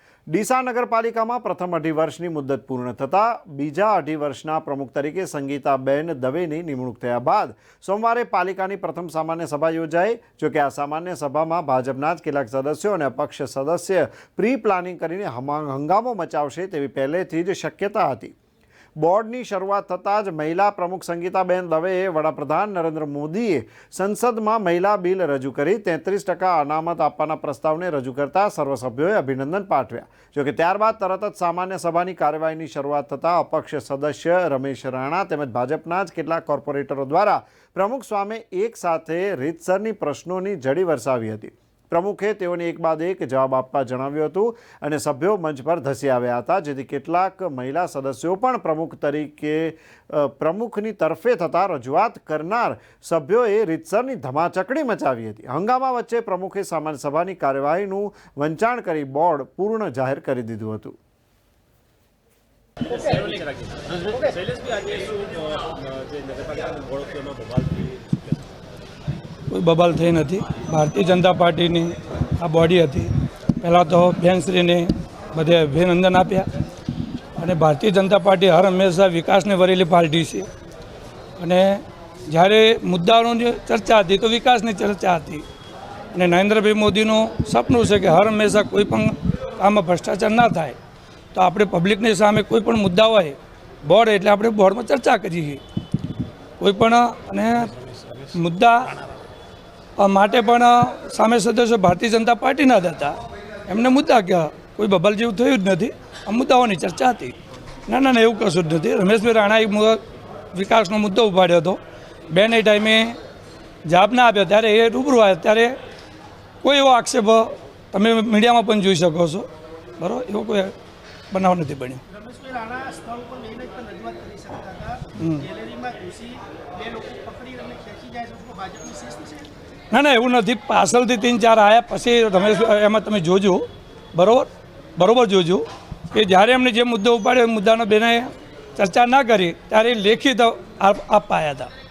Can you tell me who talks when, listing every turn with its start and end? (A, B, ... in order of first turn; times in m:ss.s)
0:00.3-0:18.3 A
0:19.0-1:00.9 A
1:02.8-1:08.5 B
1:09.5-1:13.1 C
1:13.6-1:16.5 C
1:17.4-1:20.5 C
1:21.4-1:25.4 C
1:26.1-1:30.8 C
1:31.3-1:35.6 C
1:36.6-1:37.7 C
1:37.9-1:38.3 B
1:38.3-1:38.9 C
1:40.0-1:47.3 C
1:47.9-1:50.0 C
1:50.5-1:51.8 C
1:52.3-1:53.2 C
1:53.8-1:55.8 C
1:56.6-1:59.5 C
2:00.0-2:00.7 C
2:01.3-2:02.0 C
2:02.1-2:09.5 D
2:05.2-2:05.5 C
2:09.9-2:21.7 C